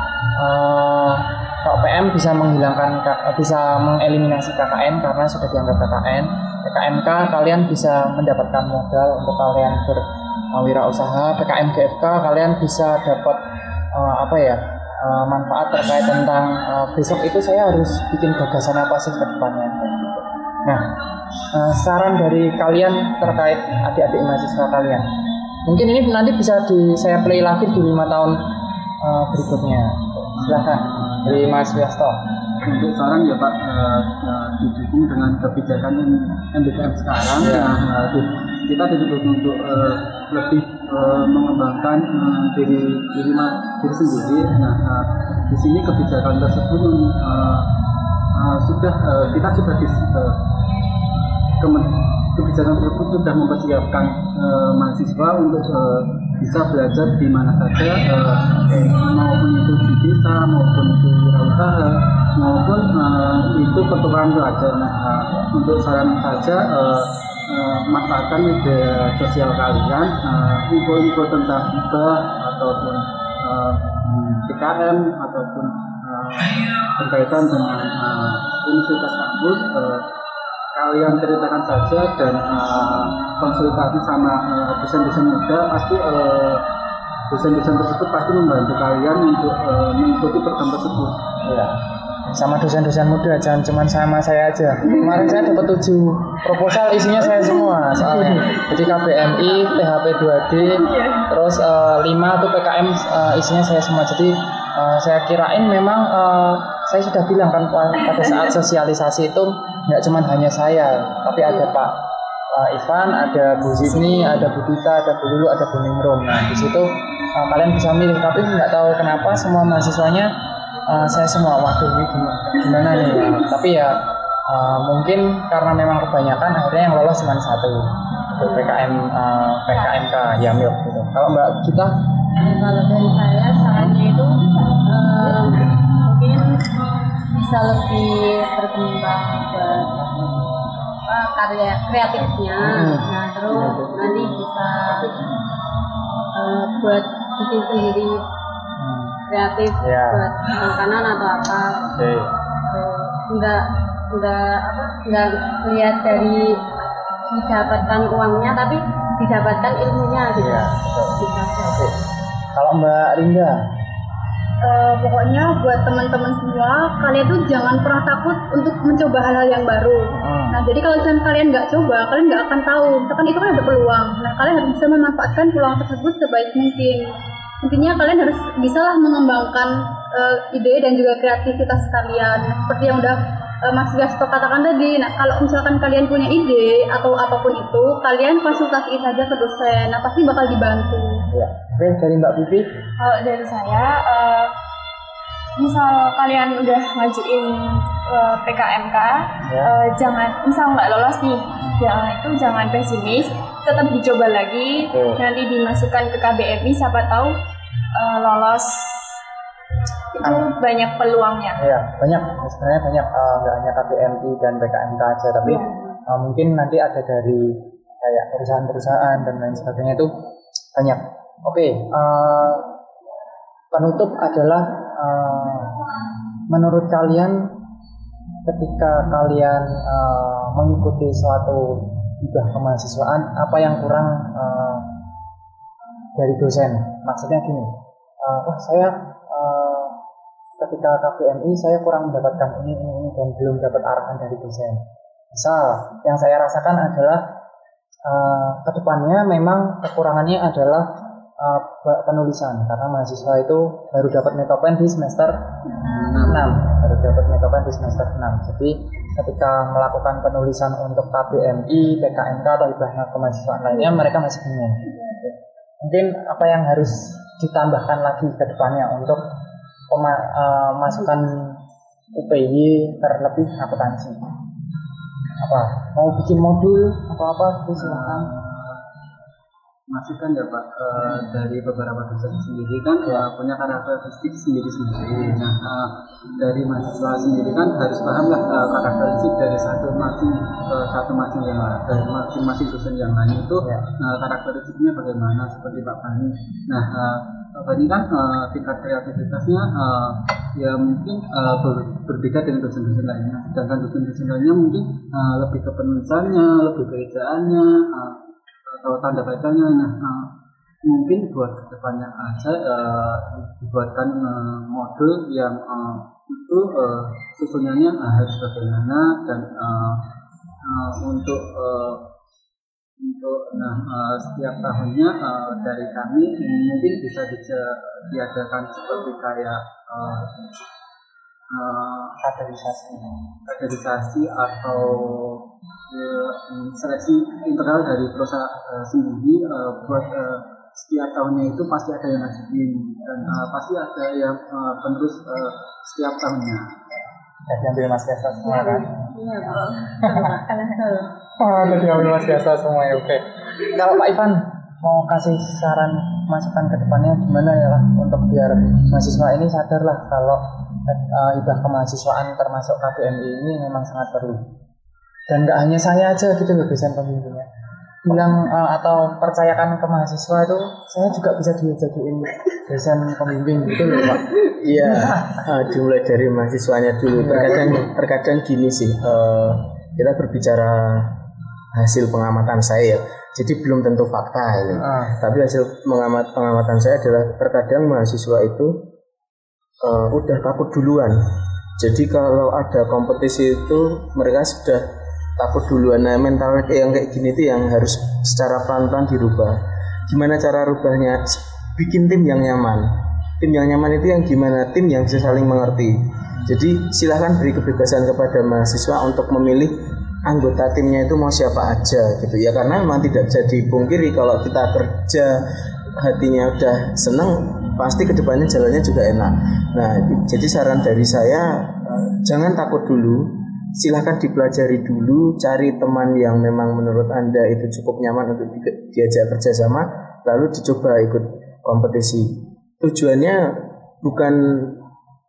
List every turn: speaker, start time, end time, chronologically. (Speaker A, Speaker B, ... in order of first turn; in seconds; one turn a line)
Speaker A: 0.4-13.4
Speaker A: 13.9-20.9
Speaker A: 21.5-25.1
Speaker A: 25.6-28.4
Speaker A: 29.0-32.2
Speaker B: 30.4-31.4
Speaker B: 32.6-47.7
Speaker A: 37.4-37.7
Speaker B: 48.3-50.4
Speaker B: 51.6-80.0
Speaker B: 80.7-86.6
Speaker B: 87.3-91.2
Speaker A: 91.4-91.8
Speaker A: 92.3-112.0
Speaker C: 95.0-95.4
Speaker C: 100.9-101.2
Speaker A: 112.5-120.3
Speaker A: 120.9-123.9
Speaker A: 124.5-131.9
Speaker D: 132.4-136.6
Speaker A: 133.7-134.0
Speaker D: 137.3-140.1
Speaker D: 141.1-145.3
Speaker A: 142.1-144.4
Speaker A: 145.2-145.4
Speaker D: 146.3-148.2
Speaker A: 148.8-149.2
Speaker D: 149.3-151.9
Speaker A: 149.8-150.3
Speaker A: 152.0-152.2
Speaker D: 152.7-153.6
Speaker D: 154.1-156.6
Speaker D: 157.3-161.9
Speaker A: 160.3-161.9
Speaker A: 162.5-163.6
Speaker E: 164.6-177.1
Speaker A: 170.1-170.6
Speaker E: 177.6-191.2
Speaker A: 191.3-192.7
Speaker C: 193.0-194.5
Speaker C: 195.6-207.3
Speaker A: 199.4-199.7
Speaker A: 204.9-205.2
Speaker C: 208.0-209.2
Speaker C: 210.1-211.6
Speaker A: 210.2-210.5
Speaker A: 211.6-220.1
Speaker A: 220.7-222.6
Speaker A: 223.7-225.7
Speaker A: 226.5-227.5
Speaker A: 228.4-234.9
Speaker A: 236.2-240.0
Speaker A: 240.6-247.2
Speaker A: 248.1-250.9
Speaker A: 251.4-255.3
Speaker A: 256.1-269.2
Speaker A: 269.9-271.6
Speaker A: 272.1-274.2
Speaker A: 275.4-278.3
Speaker B: 277.8-278.8
Speaker B: 279.9-310.3
Speaker A: 293.6-293.9
Speaker B: 310.9-320.0
Speaker B: 320.6-322.0
Speaker B: 323.0-330.3
Speaker B: 331.5-332.2
Speaker A: 332.2-333.1
Speaker B: 333.4-346.7
Speaker A: 347.5-349.0
Speaker D: 348.5-351.1
Speaker C: 349.4-350.8
Speaker A: 351.4-364.4
Speaker A: 365.3-367.5
Speaker A: 368.0-375.5
Speaker F: 374.6-381.1
Speaker A: 377.1-377.9
Speaker F: 381.7-388.8
Speaker A: 384.7-385.1
Speaker F: 389.8-391.1
Speaker F: 391.8-394.8
Speaker F: 395.4-399.6
Speaker F: 400.1-402.9
Speaker F: 403.4-409.7
Speaker F: 410.2-434.8